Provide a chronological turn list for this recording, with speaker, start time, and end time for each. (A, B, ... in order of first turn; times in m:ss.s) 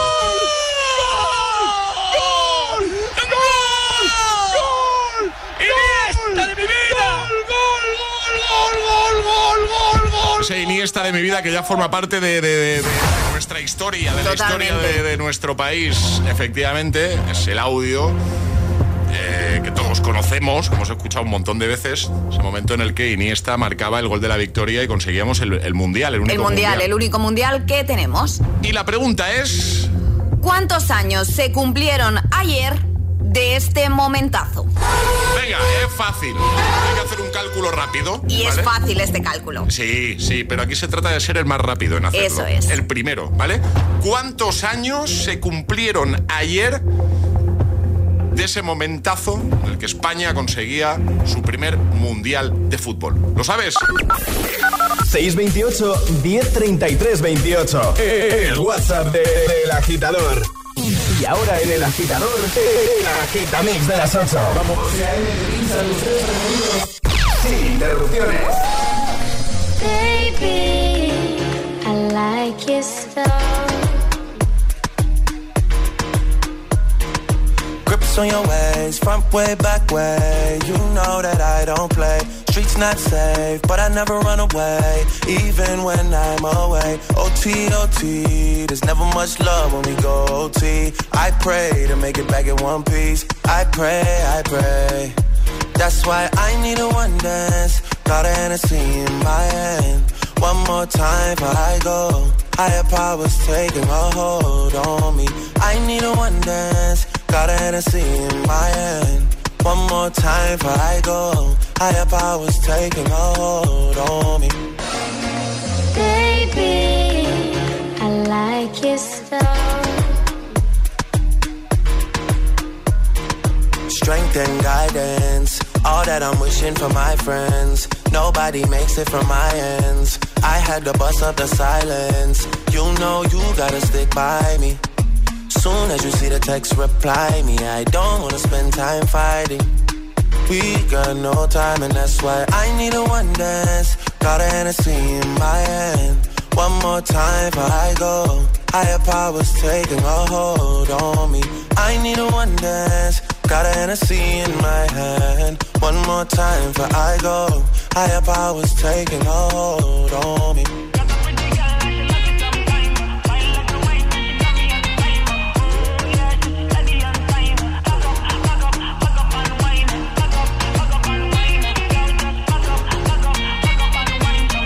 0:05.7-0:06.2 A
0:10.4-0:18.2 A
0:14.2-0:15.0 B
0:19.1-0:26.9 A
0:26.3-0:28.4 B
0:28.6-0:29.9 A
0:30.4-0:34.7 B
0:35.3-0:38.7 A
0:38.3-0:39.7 B
0:39.7-0:46.8 A
0:42.1-0:42.8 B
0:48.3-0:53.8 A
0:55.1-1:00.5 C
1:01.1-1:08.6 C
1:09.8-1:14.0 D
1:17.9-1:35.2 E
1:35.8-1:54.6 E
1:55.9-2:00.2 D
2:03.9-2:14.8 E
2:15.5-2:19.7 E
2:20.5-2:40.7 E